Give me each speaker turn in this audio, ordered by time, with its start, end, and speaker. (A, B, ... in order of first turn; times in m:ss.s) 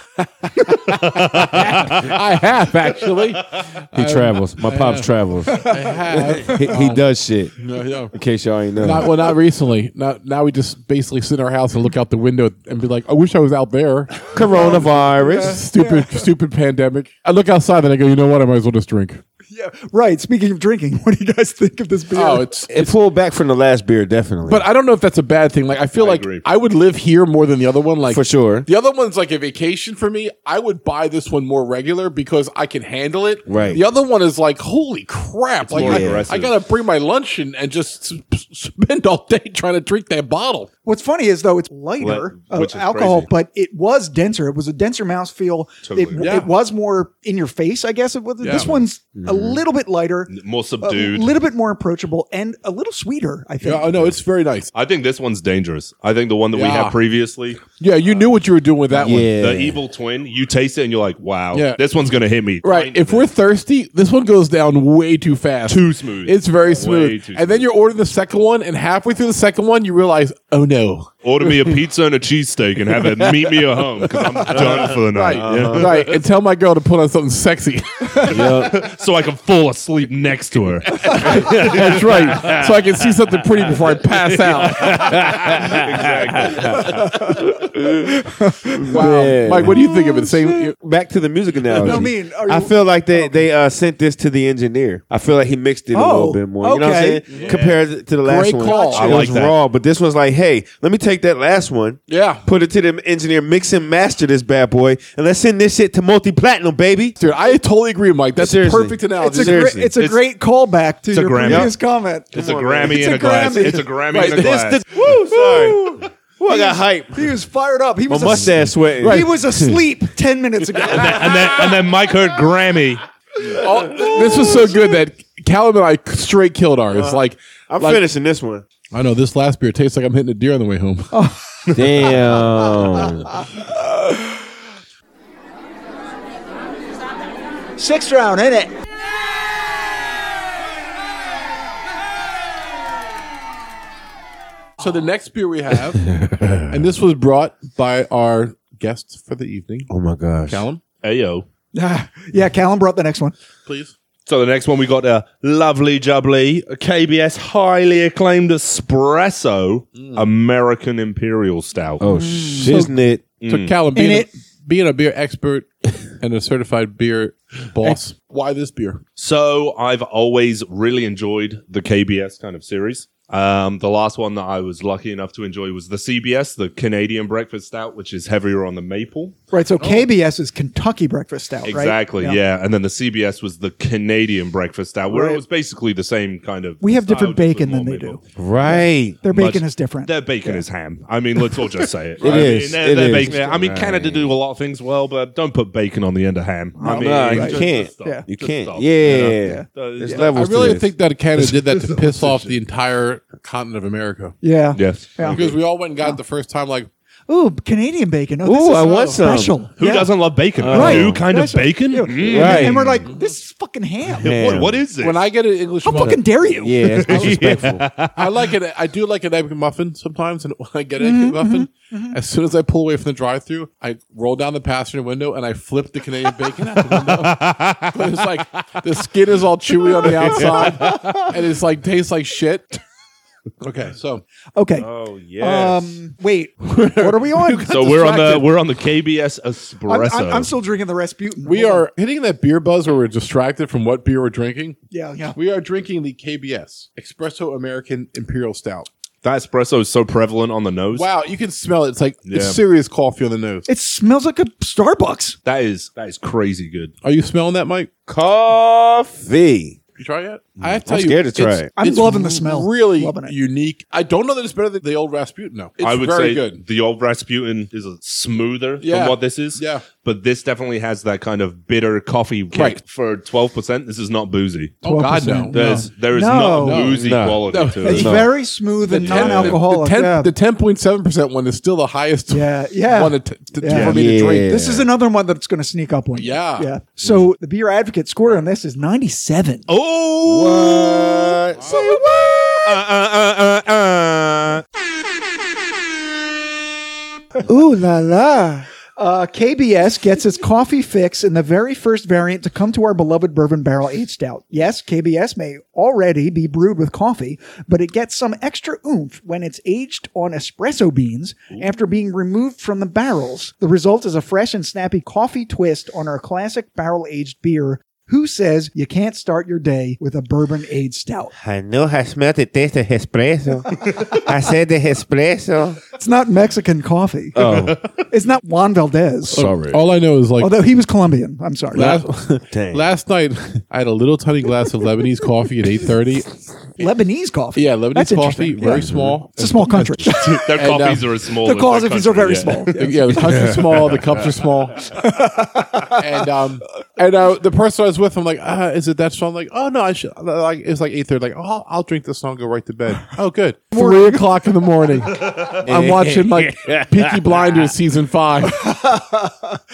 0:00.2-0:08.1 A
0:00.6-0:02.2 B
0:03.2-0:03.6 B
0:03.9-0:07.5 C
0:05.5-0:06.0 D
0:08.1-0:09.1 C
0:08.8-0:19.2 A
0:14.3-0:15.6 C
0:14.5-0:16.3 D
0:19.5-0:22.5 D
0:22.1-0:23.0 A
0:22.7-0:24.6 C
0:24.4-0:40.7 A
0:26.0-0:26.4 B
0:28.1-0:28.7 C
0:33.5-0:33.8 C
0:35.7-0:36.5 B
0:35.7-0:36.3 C
0:40.8-0:53.9 D
0:42.0-0:43.3 B
0:45.8-0:46.2 B
0:46.2-0:46.5 A
0:48.4-0:48.7 A
0:48.5-0:49.6 C
0:50.3-0:51.4 B
0:53.6-0:54.7 A
0:54.7-0:57.6 B
0:56.5-0:57.0 A
0:57.8-0:59.3 A
0:58.9-0:59.8 C
0:59.4-1:03.3 B
1:01.5-1:01.8 A
1:02.6-1:11.8 A
1:05.7-1:07.6 B
1:11.2-1:16.2 B
1:13.0-1:18.7 A
1:14.6-1:15.9 C
1:18.3-1:18.8 C
1:18.3-1:23.1 B
1:20.9-1:25.5 A
1:24.1-1:27.1 B
1:24.7-1:28.1 C
1:26.7-1:29.1 D
1:28.8-1:29.8 C
1:28.9-1:30.8 A
1:29.7-1:30.4 D
1:30.7-1:47.2 C
1:31.7-1:32.1 A
1:31.7-1:33.4 D
1:35.9-1:37.2 D
1:37.3-1:37.6 A
1:37.4-1:37.8 B
1:38.2-1:39.3 A
1:38.6-1:39.3 D
1:39.0-1:39.6 B
1:42.1-1:42.5 A
1:47.2-1:49.8 A
1:48.4-1:49.9 C
1:49.2-1:53.9 D
1:51.1-1:51.8 B
1:51.4-1:51.7 C
1:52.3-1:53.0 C
1:52.3-1:54.8 B
1:54.1-1:55.1 A
1:54.2-1:57.4 C
1:55.0-2:01.5 D
1:58.1-1:59.8 C
1:58.8-1:59.4 A
2:00.8-2:03.0 B
2:00.9-2:01.4 A
2:03.5-2:08.0 A
2:06.9-2:08.6 C
2:08.9-2:11.2 A
2:11.1-2:11.7 D
2:11.7-2:12.4 B
2:11.8-2:13.4 C
2:13.3-2:14.4 D
2:17.8-2:18.7 D
2:24.8-2:26.1 A
2:26.1-2:26.7 C
2:26.7-2:29.9 A
2:29.9-2:30.6 C
2:30.5-2:30.8 A
2:31.0-2:31.5 B
2:31.7-2:33.4 D
2:33.7-2:33.9 A
2:34.3-2:42.0 B
2:40.0-2:40.3 A
2:42.0-2:43.2 C
2:42.0-2:43.0 D
2:43.4-2:43.8 B
2:43.5-2:49.0 A
2:44.0-2:44.3 D
2:49.2-2:59.4 B
2:59.5-3:02.4 D
3:01.7-3:08.2 B
3:05.1-3:05.4 D
3:06.8-3:10.6 D
3:08.4-3:09.2 C
3:09.2-3:20.8 B
3:12.2-3:14.3 C
3:16.8-3:18.2 D
3:16.9-3:20.9 C
3:19.4-3:20.2 D
3:20.4-3:24.4 A
3:21.8-3:22.5 B
3:24.4-3:25.4 D
3:24.8-3:25.6 B
3:25.2-3:26.9 A
3:27.3-3:30.2 D
3:28.4-3:29.6 C
3:28.8-3:29.2 A
3:29.8-3:33.0 B
3:30.6-3:31.2 C
3:30.7-3:34.6 D
3:32.2-3:33.0 C
3:32.4-3:33.3 A
3:34.2-3:34.8 C
3:34.2-3:35.2 B
3:35.0-3:36.4 A
3:35.8-3:37.0 D
3:36.6-3:37.9 C
3:36.8-3:38.5 B
3:37.1-3:52.8 A
3:41.0-3:42.2 D
3:46.8-3:48.2 B
3:50.1-3:51.2 B
3:50.9-3:51.2 D
3:53.6-3:54.2 A
3:54.6-3:54.9 D
3:54.8-3:55.8 C
3:55.4-3:58.5 D
3:56.6-3:57.6 A
3:57.6-4:00.5 B
3:59.9-4:01.9 D
4:01.4-4:04.8 A
4:04.9-4:05.4 D
4:05.3-4:08.9 A
4:09.2-4:11.1 B
4:10.9-4:13.7 A
4:12.2-4:12.6 B
4:13.7-4:15.4 D
4:15.4-4:16.9 B
4:17.0-4:17.9 A
4:18.1-4:19.8 C
4:20.0-4:26.6 A
4:20.6-4:21.7 C
4:21.8-4:23.4 D
4:25.8-4:34.8 B
4:28.8-4:29.8 A
4:32.5-4:32.8 A
4:34.8-4:35.9 A
4:34.8-4:36.9 D
4:35.5-4:38.2 B
4:36.5-4:38.3 A
4:37.0-4:38.3 C
4:37.8-4:40.3 D
4:38.9-4:44.6 A
4:39.0-4:39.6 B
4:42.3-4:49.7 D
4:43.7-4:44.9 C
4:46.1-4:46.7 A
4:49.7-4:51.4 B
4:50.2-4:52.3 C
4:51.5-4:52.0 A
4:51.7-4:52.5 D
4:52.5-4:54.6 B
4:57.4-5:21.3 D
5:21.4-5:25.8 C
5:26.0-5:27.4 D
5:27.4-5:27.8 C
5:27.4-5:27.9 B
5:28.1-5:29.4 D
5:29.3-5:29.8 C
5:29.3-5:30.5 A
5:30.4-5:32.0 D
5:31.7-5:36.9 A
5:31.8-5:32.9 C
5:36.8-5:40.5 D
5:37.5-5:41.1 A
5:38.6-5:39.2 C
5:40.4-5:43.5 B
5:41.4-5:43.0 D
5:42.8-5:45.0 A
5:43.3-5:44.2 C
5:44.9-5:46.2 D
5:45.9-5:58.6 A
5:53.7-5:54.5 D
5:55.2-5:55.6 B
5:55.6-5:57.6 C
5:58.4-5:59.6 D